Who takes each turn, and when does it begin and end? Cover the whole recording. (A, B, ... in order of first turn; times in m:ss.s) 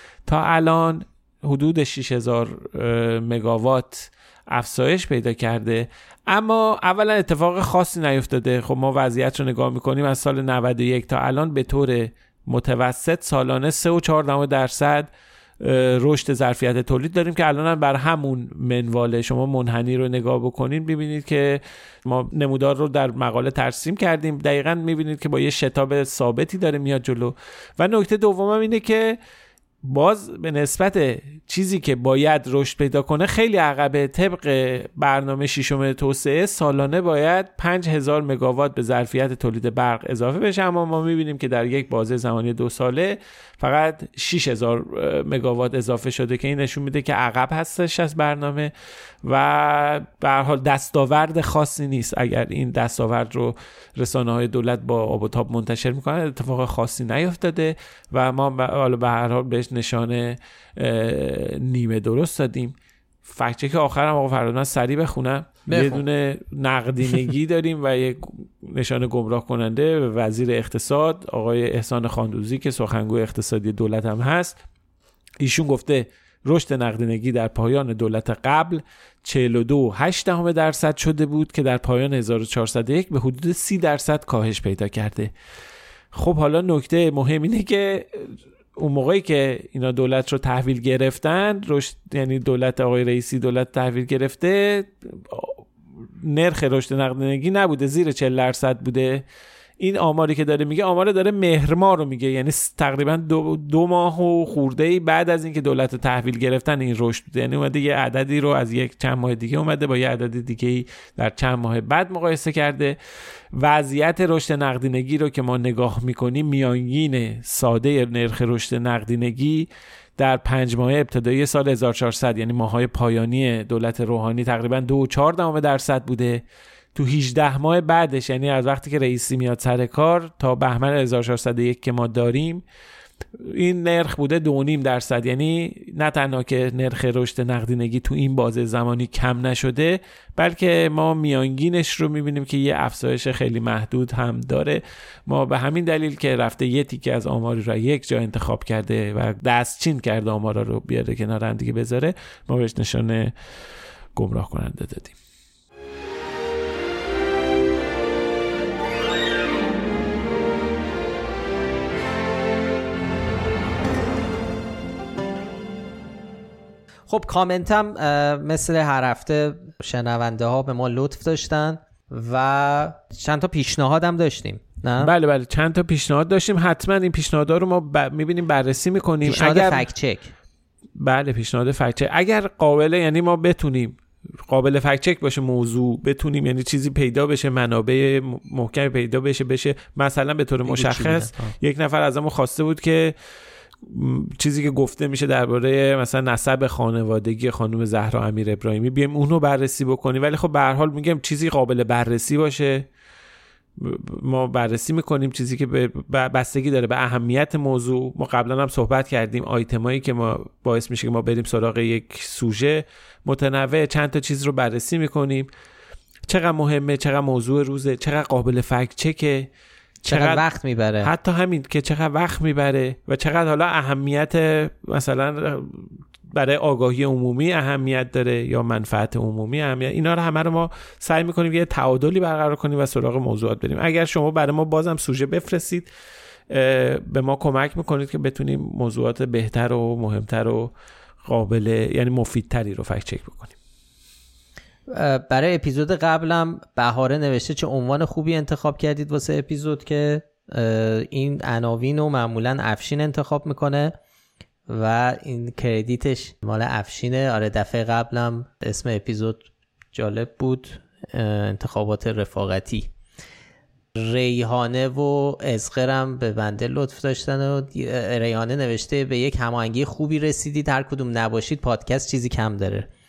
0:00.2-0:29.2 A
0:29.8-0:48.7 A
0:49.2-1:14.6 A
1:05.7-1:06.0 B
1:15.4-1:25.3 A
1:26.1-1:35.6 A
1:36.2-1:39.2 A
1:39.8-1:53.0 A
1:53.5-2:06.4 A
2:06.9-2:12.6 A
2:13.4-2:33.3 A
2:34.1-2:35.2 A
2:47.1-2:55.1 B
2:55.0-2:59.9 A
2:59.2-3:00.3 B
3:01.0-3:13.1 A
3:10.7-3:11.5 B
3:13.8-3:22.9 A
3:23.8-3:35.5 A
3:36.3-3:39.5 A
3:40.0-3:40.4 A
3:40.0-3:41.1 B
3:41.0-3:55.9 A
3:56.5-4:00.7 A
4:01.2-4:03.6 A
4:04.9-4:13.9 B
4:14.7-4:22.9 B
4:23.9-4:32.9 B